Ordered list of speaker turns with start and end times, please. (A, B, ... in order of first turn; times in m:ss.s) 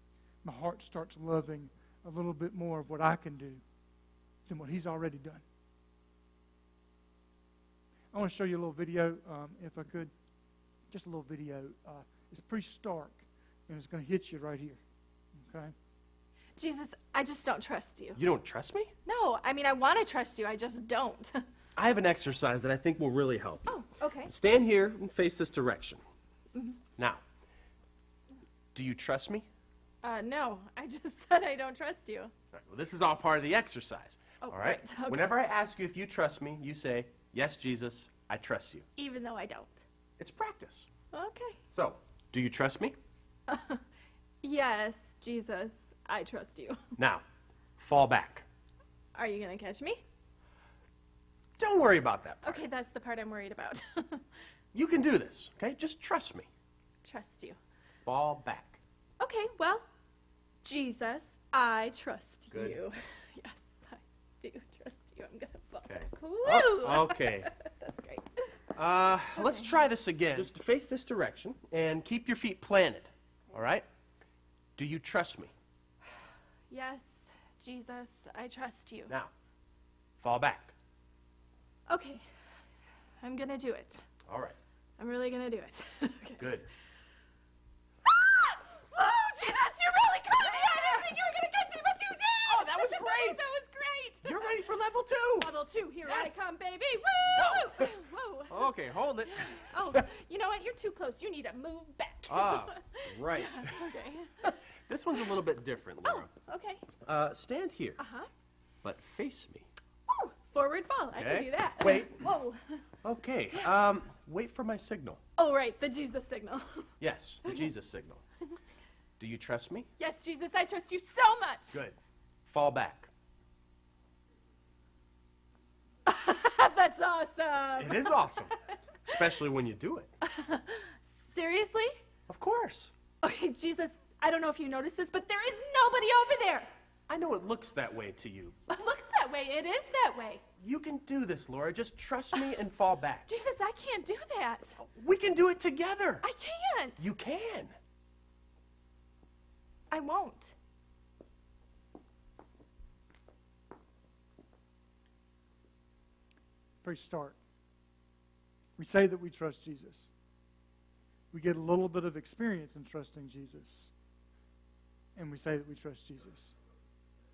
0:00.4-0:03.6 A
0:04.5-0:05.4 A
0:08.1-0:10.1 A
0:10.9-0:14.8 A
0:15.4-0:15.7 A
0:16.6-0:18.2 B
0:18.2-0:18.9 C
0:19.0-0:21.5 B
0:21.8-0:23.7 C
0:23.7-0:24.3 B
0:24.2-0:26.0 C
0:27.0-0:27.2 C
0:28.7-0:29.5 C
0:30.0-0:32.3 B
0:32.5-0:38.9 C
0:34.4-0:35.4 B
0:39.0-0:39.8 B
0:40.2-0:40.9 C
0:41.1-0:41.6 B
0:41.7-0:43.0 C
0:43.5-0:43.8 B
0:44.4-0:46.8 B
0:47.0-0:47.2 C
0:47.8-0:48.5 C
0:49.2-0:50.0 B
0:51.6-0:52.6 C
0:52.4-0:54.2 B
0:54.7-0:56.5 C
0:57.0-0:57.6 B
0:58.0-0:58.8 C
0:59.2-0:59.8 B
1:00.6-1:08.5 B
1:02.5-1:02.8 C
1:05.8-1:07.5 C
1:08.8-1:13.9 C
1:09.4-1:09.7 B
1:14.8-1:15.5 C
1:16.7-1:19.1 B
1:20.2-1:20.8 C
1:21.9-1:22.2 B
1:23.2-1:24.0 B
1:24.3-1:24.6 C
1:25.0-1:26.6 B
1:26.4-1:26.7 C
1:28.0-1:34.6 B
1:30.4-1:31.1 C
1:32.4-1:33.5 C
1:34.2-1:35.5 C
1:35.4-1:38.7 B
1:36.0-1:36.4 C
1:37.3-1:40.0 C
1:39.3-1:44.5 B
1:42.3-1:46.3 C
1:46.0-1:46.9 B
1:47.0-1:48.0 C
1:48.0-1:48.3 B
1:48.8-1:49.7 C
1:50.1-1:52.8 B
1:51.1-1:52.3 C
1:53.0-1:55.2 C
1:55.4-1:56.9 B
1:57.0-1:58.2 C
1:59.2-1:59.9 C
2:00.0-2:01.8 B
2:01.7-2:03.1 C
2:06.1-2:08.6 B
2:07.8-2:08.5 C
2:09.0-2:10.1 C
2:10.2-2:12.0 B
2:12.3-2:12.9 C
2:13.2-2:16.7 B
2:17.1-2:18.6 C
2:18.7-2:20.4 B
2:20.6-2:23.3 C
2:23.3-2:24.8 B
2:24.8-2:26.2 C
2:26.2-2:27.1 B
2:27.0-2:27.8 C
2:29.9-2:30.6 B
2:36.8-2:37.4 A
2:38.8-2:40.1 A
2:41.3-2:43.9 A
2:45.2-2:46.6 A